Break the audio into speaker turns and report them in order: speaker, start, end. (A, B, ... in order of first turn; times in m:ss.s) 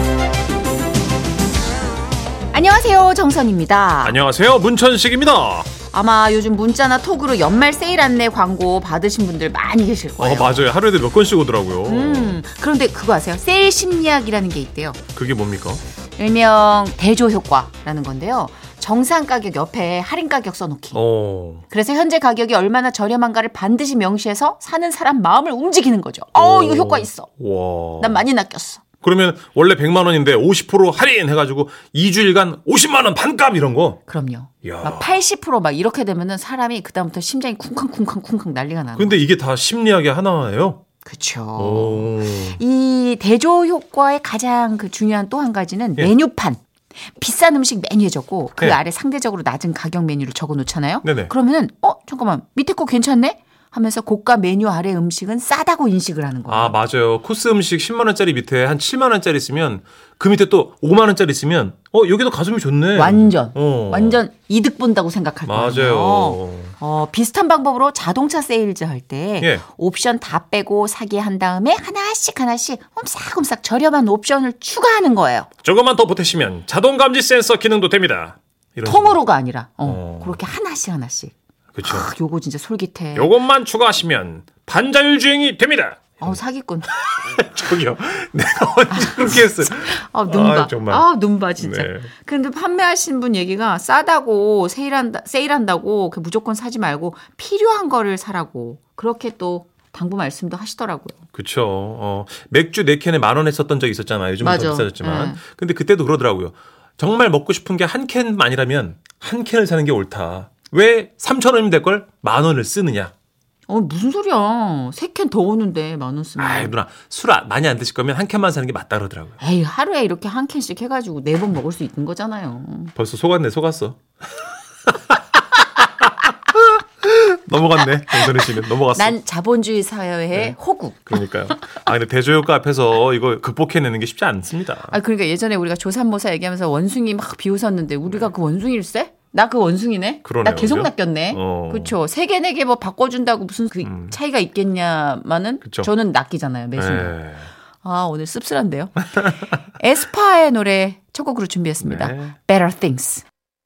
0:02.5-0:04.2 A
0:04.0-0:05.7 B
0:05.9-0:10.6 A
0:10.2-0:12.4 B
0:11.8-0:15.0 A
0:15.1-0:15.8 B
0:16.2-0:21.0 A
0:20.9-0:21.6 B
0:21.7-0:27.3 A
0:26.4-0:28.2 B
0:28.0-0:28.8 A
0:29.0-0:34.0 B
0:34.1-0:39.2 A
0:34.6-0:35.1 B
0:39.0-0:40.8 B
0:41.0-0:46.6 A
0:41.6-0:42.6 B
0:47.1-0:56.7 A
0:51.0-0:51.3 B
0:56.5-1:04.2 B
1:02.9-1:15.5 A
1:05.5-1:06.7 B
1:09.4-1:09.6 B
1:15.6-1:19.2 B
1:18.8-1:23.3 A
1:19.8-1:20.4 B
1:21.7-1:22.1 B
1:23.1-1:26.4 B
1:26.2-1:26.9 A
1:26.9-1:31.0 B
1:28.9-1:41.2 A
1:31.6-1:32.1 B
1:41.3-1:53.1 B
1:44.4-1:45.4 A
1:53.7-1:56.7 A
1:56.4-1:59.4 B
1:59.4-2:02.9 A
2:03.0-2:04.0 B
2:04.9-2:09.2 B
2:08.2-2:11.0 A
2:11.1-2:14.9 B
2:14.9-2:27.1 A
2:20.2-2:22.0 B
2:23.8-2:24.1 B
2:25.6-2:25.9 B
2:26.8-2:27.5 B
2:27.8-2:29.1 A
2:29.2-2:29.5 B
2:29.7-2:33.2 A
2:31.8-2:32.3 B